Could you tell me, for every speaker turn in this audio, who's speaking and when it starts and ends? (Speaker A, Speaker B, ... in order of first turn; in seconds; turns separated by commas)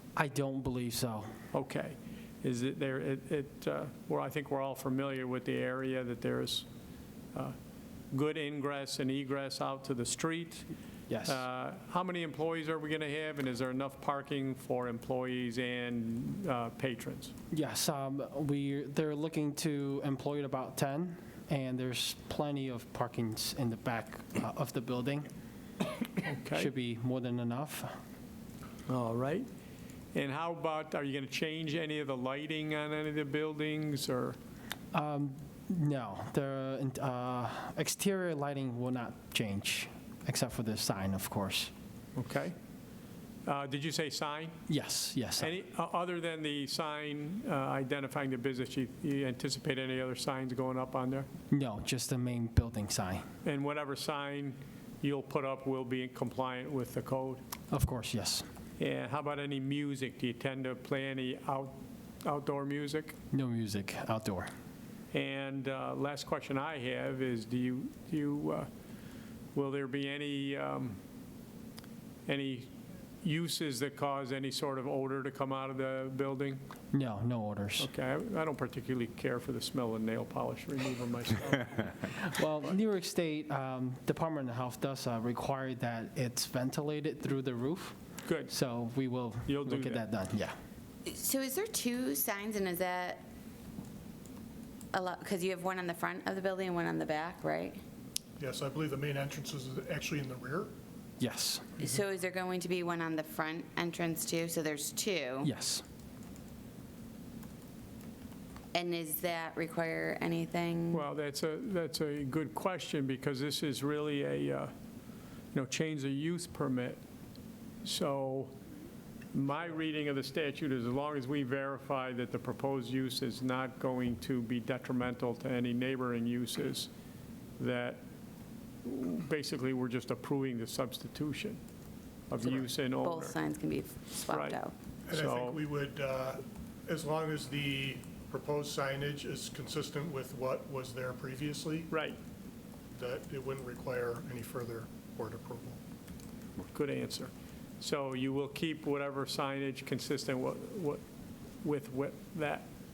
Speaker A: 0.2-1.3, Speaker B: 1.5-6.7, Speaker B: 8.1-10.7, Speaker A: 11.1-11.4, Speaker B: 11.3-17.3, Speaker A: 17.5-25.3, Speaker B: 26.2-26.7, Speaker A: 26.5-27.9, Speaker B: 28.9-29.5, Speaker B: 30.1-34.4, Speaker A: 34.9-41.7, Speaker B: 42.2-42.6, Speaker B: 43.5-44.6, Speaker A: 44.7-45.5, Speaker B: 45.4-51.3, Speaker A: 51.5-53.2, Speaker B: 53.4-57.4, Speaker A: 57.7-58.5, Speaker B: 58.8-63.2, Speaker A: 63.3-64.5, Speaker B: 65.1-68.7, Speaker B: 69.5-71.0, Speaker B: 72.3-76.6, Speaker A: 76.9-77.9, Speaker B: 77.8-82.0, Speaker A: 82.0-88.0, Speaker B: 88.3-88.5, Speaker A: 88.5-90.5, Speaker B: 89.5-90.0, Speaker C: 91.0-93.2, Speaker C: 94.9-97.8, Speaker D: 98.4-100.7, Speaker A: 101.2-101.7, Speaker C: 101.8-105.5, Speaker A: 105.4-105.8, Speaker C: 108.7-111.0, Speaker B: 110.9-114.7, Speaker B: 115.5-117.0, Speaker B: 117.8-118.5, Speaker B: 119.3-126.9, Speaker B: 127.6-128.0, Speaker B: 128.8-131.6, Speaker B: 132.3-133.4, Speaker C: 132.6-134.7, Speaker B: 134.3-134.6, Speaker D: 135.1-141.8, Speaker B: 135.1-135.6, Speaker B: 141.9-142.2, Speaker D: 143.0-145.8, Speaker B: 146.6-151.0, Speaker B: 151.6-152.7